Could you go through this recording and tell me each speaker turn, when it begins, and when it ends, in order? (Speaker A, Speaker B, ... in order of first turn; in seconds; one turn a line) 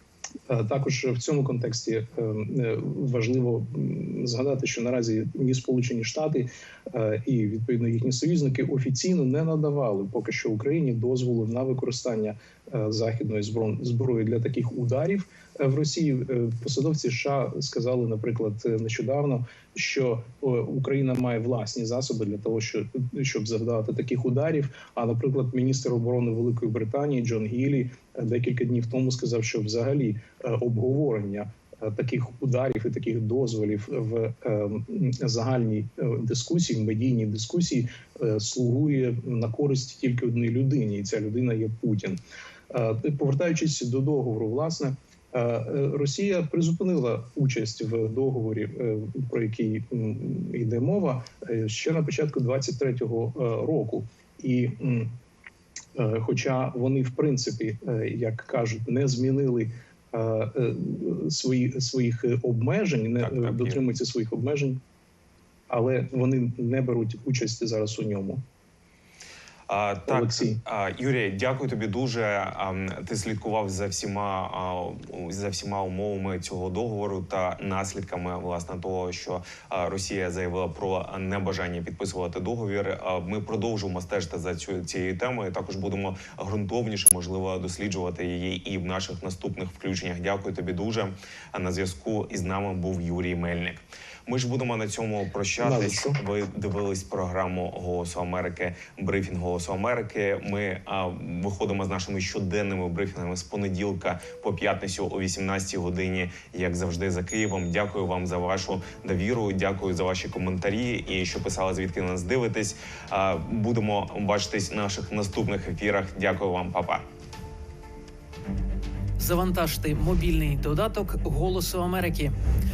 Speaker A: 0.5-42.2
Speaker A: 42.7-55.1
Speaker A: 56.0-64.8
Speaker B: 63.2-63.8
Speaker A: 65.7-68.4
Speaker B: 69.7-117.0
Speaker A: 70.0-70.6
Speaker A: 95.6-96.2
Speaker C: 119.2-122.3